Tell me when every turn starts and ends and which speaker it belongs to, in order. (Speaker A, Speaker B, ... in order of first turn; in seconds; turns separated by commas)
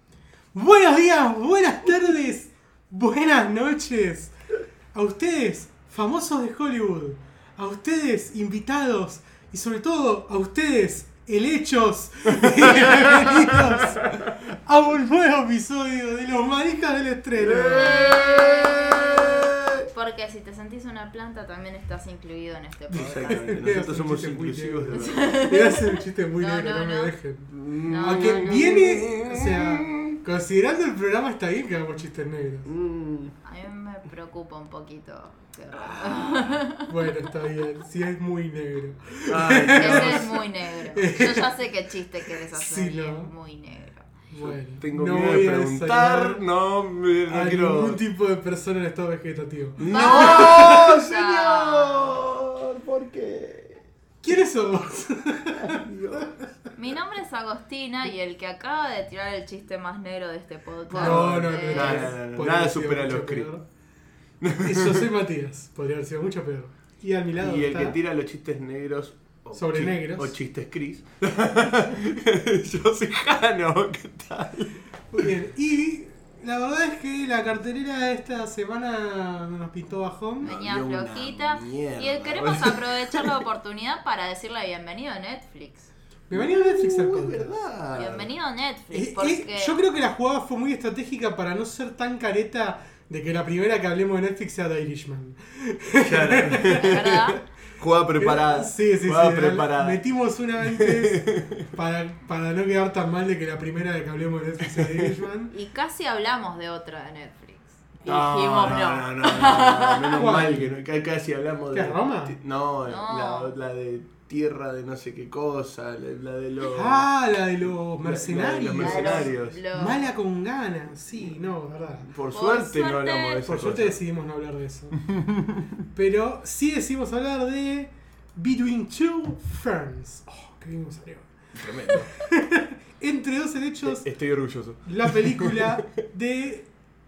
Speaker A: 0.5-4.3, Speaker A: 4.9-18.1, Speaker B: 12.4-14.3, Speaker B: 17.4-19.9, Speaker C: 17.7-23.5, Speaker A: 22.9-32.7, Speaker B: 23.0-25.3, Speaker C: 24.9-27.1, Speaker B: 27.5-30.2, Speaker C: 27.9-28.5, Speaker B: 32.7-33.4, Speaker C: 33.5-37.1, Speaker B: 35.7-36.6, Speaker A: 36.9-41.6, Speaker B: 39.3-40.4, Speaker C: 39.7-44.1, Speaker A: 42.2-43.3, Speaker A: 44.3-46.4, Speaker B: 44.4-48.0, Speaker A: 47.3-50.8, Speaker B: 49.8-53.8, Speaker C: 49.9-52.2, Speaker A: 54.2-56.5, Speaker B: 55.5-56.5, Speaker C: 56.8-62.1, Speaker A: 60.9-63.6, Speaker B: 61.0-63.5, Speaker B: 64.4-65.1, Speaker A: 64.6-68.0, Speaker B: 67.4-75.3, Speaker A: 69.5-70.4, Speaker A: 75.1-80.5, Speaker B: 80.4-83.4, Speaker C: 80.4-85.9, Speaker A: 86.3-87.6, Speaker B: 86.3-88.3, Speaker C: 87.9-89.8, Speaker A: 88.9-97.3, Speaker B: 96.0-100.0, Speaker C: 96.8-97.4, Speaker A: 98.2-105.5, Speaker B: 100.6-101.7, Speaker B: 104.7-105.1, Speaker C: 105.5-110.3, Speaker B: 108.0-117.1, Speaker A: 110.1-110.8, Speaker A: 111.7-112.4, Speaker C: 112.8-113.5, Speaker A: 116.7-122.1, Speaker B: 118.0-119.6, Speaker C: 118.8-120.1, Speaker B: 122.0-124.0, Speaker C: 122.3-123.4, Speaker A: 123.4-125.0, Speaker B: 125.1-125.7, Speaker A: 125.9-131.3, Speaker B: 131.6-132.1, Speaker A: 131.9-134.1, Speaker B: 133.8-135.8, Speaker A: 134.8-136.7